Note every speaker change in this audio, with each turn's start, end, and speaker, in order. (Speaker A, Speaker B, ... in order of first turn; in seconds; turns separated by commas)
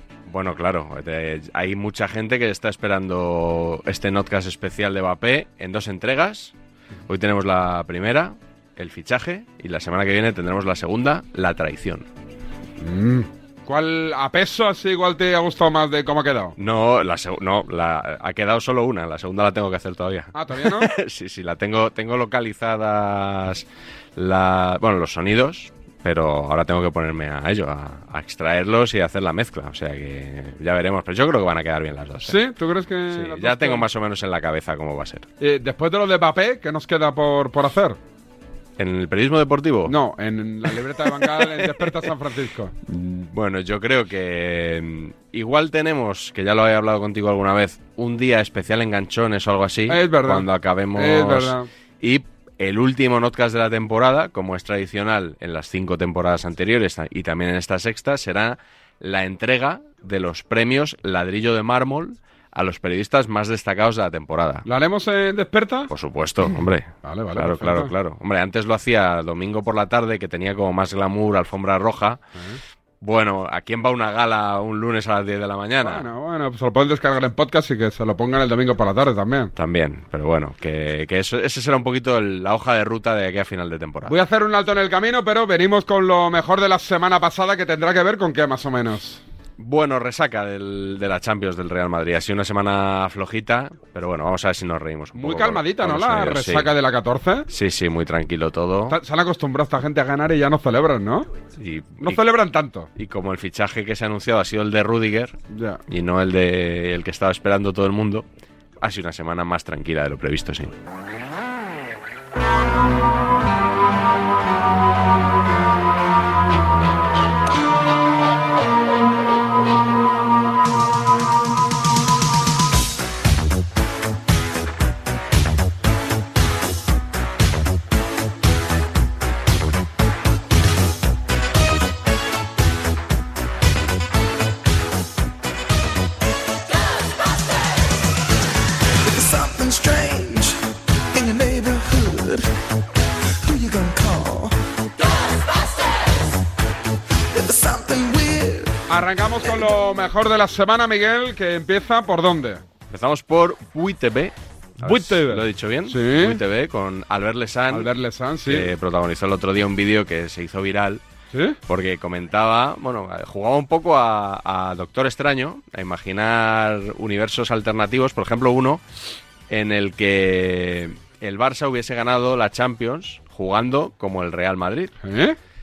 Speaker A: 0.3-6.5, Speaker A: 7.1-12.1, Speaker B: 12.8-16.5, Speaker A: 16.6-32.4, Speaker B: 20.3-20.9, Speaker B: 32.2-33.8, Speaker A: 33.1-35.3, Speaker B: 35.4-38.0, Speaker A: 38.8-39.9, Speaker B: 39.9-42.7, Speaker A: 41.2-42.0, Speaker A: 42.9-64.6, Speaker B: 49.9-51.7, Speaker B: 64.7-65.9, Speaker A: 65.9-72.2, Speaker B: 66.5-67.9, Speaker A: 73.0-76.1, Speaker B: 75.8-79.5, Speaker A: 79.5-84.1, Speaker B: 84.0-89.2, Speaker A: 89.6-96.7, Speaker B: 95.2-97.5, Speaker A: 97.5-99.0, Speaker B: 98.9-101.3, Speaker A: 101.6-102.2, Speaker B: 102.0-102.9, Speaker A: 103.0-105.4, Speaker B: 105.5-105.8, Speaker A: 105.9-108.2, Speaker A: 108.8-110.7, Speaker C: 139.0-140.6, Speaker C: 141.1-142.5, Speaker C: 143.4-144.6, Speaker C: 147.3-148.8, Speaker B: 148.9-152.6, Speaker A: 152.9-157.9, Speaker B: 154.8-156.4, Speaker B: 157.7-158.7, Speaker A: 158.5-161.0, Speaker A: 161.7-168.8, Speaker A: 169.5-174.9, Speaker B: 175.0-175.4